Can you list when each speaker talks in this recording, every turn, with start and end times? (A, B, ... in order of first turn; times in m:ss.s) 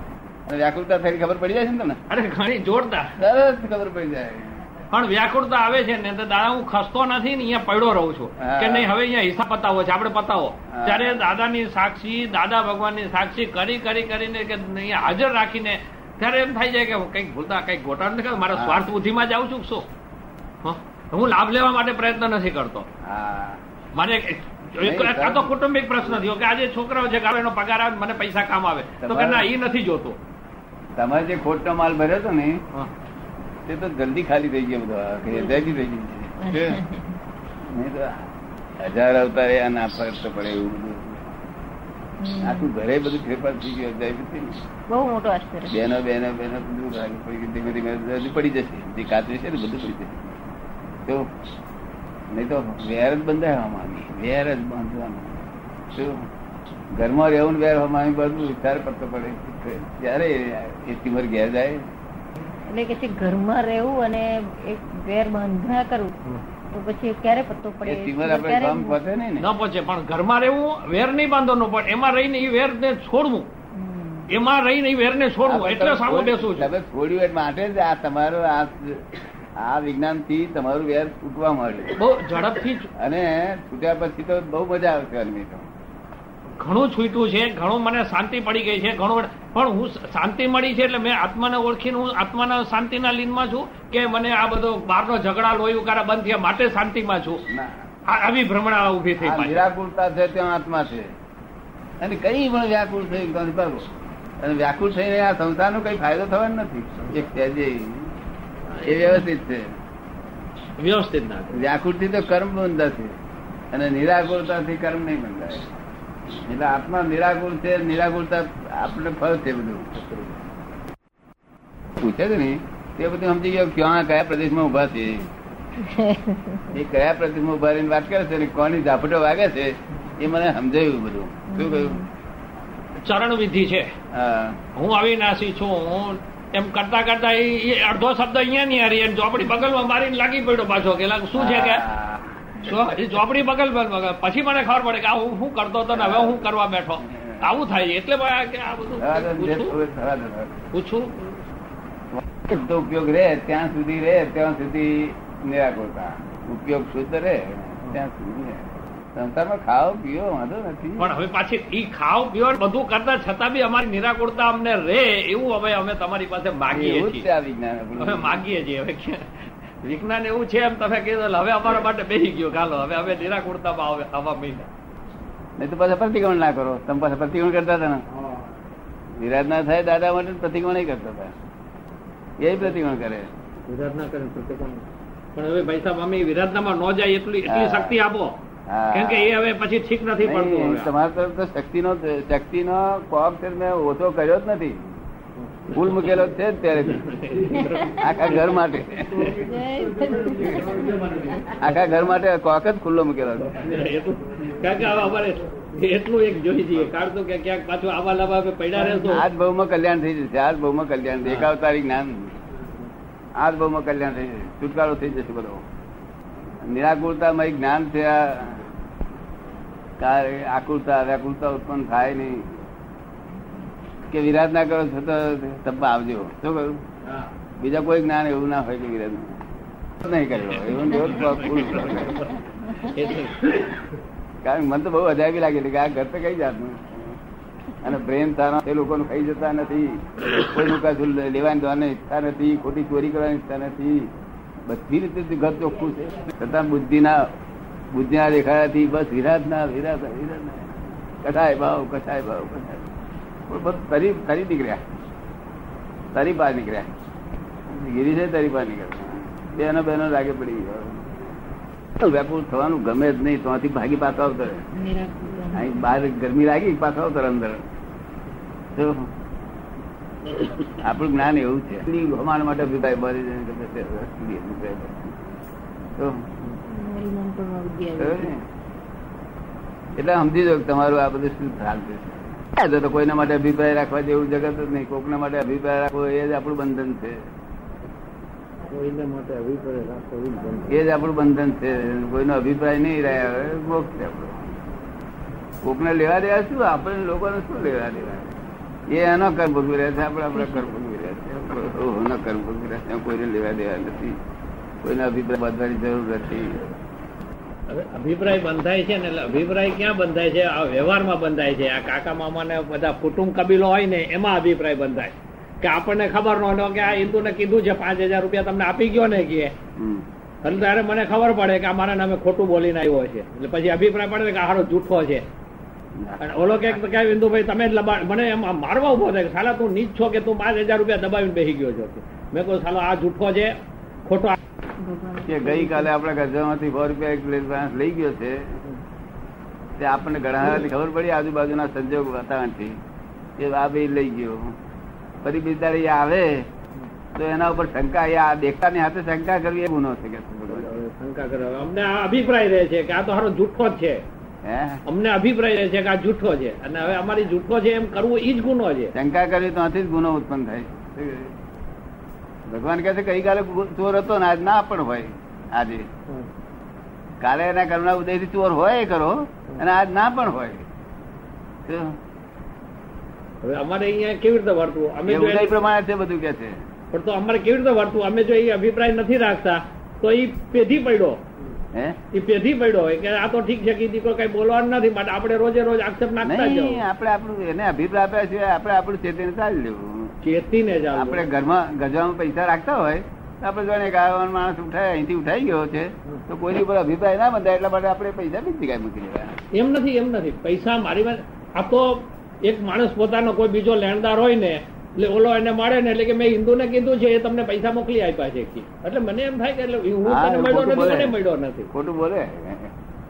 0:00.5-0:02.0 A
0:02.1-0:03.2 B
0:03.2-0:04.6 A
0:04.9-0:19.8 B
0:08.4-0:08.9 A
0:10.7-0:11.3 A
0:18.5-0:18.8 A
0:20.6-0:22.9 B
0:23.0-0:23.6 A
0:23.9-0:30.2 B
0:24.8-0:25.5 A
0:29.0-0:29.5 A
0:31.0-0:32.6 A
0:33.6-0:36.8 A
0:36.4-0:37.1 C
0:37.6-0:41.3 A
0:42.2-0:42.7 C
0:42.4-0:44.6 A
0:44.9-0:45.8 C
0:45.7-0:50.3 A
0:51.0-0:51.3 A
0:52.3-0:56.3 A
0:56.9-1:01.8 A
1:02.7-1:06.2 C
1:06.7-1:09.0 C
1:07.8-1:09.5 A
1:09.4-1:13.5 B
1:13.7-1:14.3 C
1:14.3-1:16.7 B
1:15.4-1:19.0 A
1:19.6-1:22.0 A
1:22.0-1:22.9 B
1:22.9-1:25.7 A
1:26.6-1:37.5 B
1:37.5-1:37.8 A
1:38.1-1:39.7 B
1:39.2-1:41.1 A
1:42.0-1:48.1 A
1:48.8-1:49.7 A
1:50.8-1:51.6 B
1:51.5-1:53.2 A
1:53.7-1:55.7 A
1:56.3-1:59.9 A
1:59.9-2:00.3 B
2:02.0-2:05.3 A
2:05.8-2:06.7 C
2:06.7-2:12.0 A
2:11.5-2:12.1 C
2:13.0-2:13.9 B
2:14.1-2:14.6 A
2:14.7-2:21.8 B
2:21.4-2:22.9 A
2:22.6-2:29.8 B
2:25.9-2:26.5 A
2:27.0-2:27.5 A
2:29.0-2:30.6 A
2:30.7-2:31.3 B
2:32.1-2:41.1 A
2:41.0-2:47.3 B
2:46.7-2:48.4 A
2:48.0-2:54.7 B
2:55.6-2:58.0 A
2:59.2-3:01.3 A
3:02.4-3:03.3 A
3:03.6-3:08.4 B
3:07.4-3:08.0 A
3:08.7-3:09.3 A
3:08.9-3:10.9 B
3:10.2-3:15.0 A
3:15.5-3:16.3 B
3:15.7-3:17.1 A
3:16.8-3:18.5 B
3:18.0-3:19.3 A
3:19.3-3:20.9 C
3:21.1-3:21.5 B
3:21.6-3:23.8 A
3:23.5-3:29.3 B
3:28.8-3:32.4 A
3:33.4-3:35.6 A
3:36.6-3:38.6 A
3:40.0-3:42.6 A
3:44.1-3:46.8 A
3:47.6-3:49.4 A
3:50.0-3:52.4 A
3:50.8-3:53.6 B
3:54.4-3:57.2 A
3:57.8-4:04.1 A
4:04.6-4:07.2 A
4:07.9-4:12.9 A
4:13.5-4:14.8 A
4:16.1-4:16.9 A
4:17.7-4:21.2 A
4:22.0-4:24.6 A
4:24.7-4:25.8 C
4:25.5-4:27.6 A
4:28.7-4:29.1 A
4:30.7-4:35.2 A
4:36.0-4:36.2 A
4:36.6-4:38.3 C
4:38.0-4:38.4 A
4:39.9-4:47.2 A
4:48.7-4:50.8 B
4:50.7-4:54.5 A
4:55.6-4:58.4 A
4:58.9-5:04.2 A
5:04.8-5:06.6 A
5:07.7-5:19.5 B
5:19.8-5:20.1 A
5:20.4-5:25.2 B
5:26.0-5:26.8 A
5:26.2-5:34.4 B
5:34.8-5:35.9 C
5:35.2-5:38.6 A
5:39.8-5:42.8 A
5:43.4-5:44.6 A
5:45.2-5:46.5 A
5:47.1-5:50.7 A
5:50.5-5:54.0 B
5:54.4-5:54.8 A
5:54.8-5:58.9 B
5:58.9-6:01.3 A
6:02.5-6:05.9 A
6:07.2-6:10.6 A
6:11.6-6:12.0 A
6:13.4-6:15.7 B
6:15.0-6:16.6 A
6:16.9-6:21.3 B
6:22.1-6:26.8 B
6:26.2-6:30.2 A
6:30.2-6:31.3 B
6:30.9-6:39.4 A
6:39.5-6:51.7 B
6:50.0-6:51.2 A
6:51.7-6:52.7 A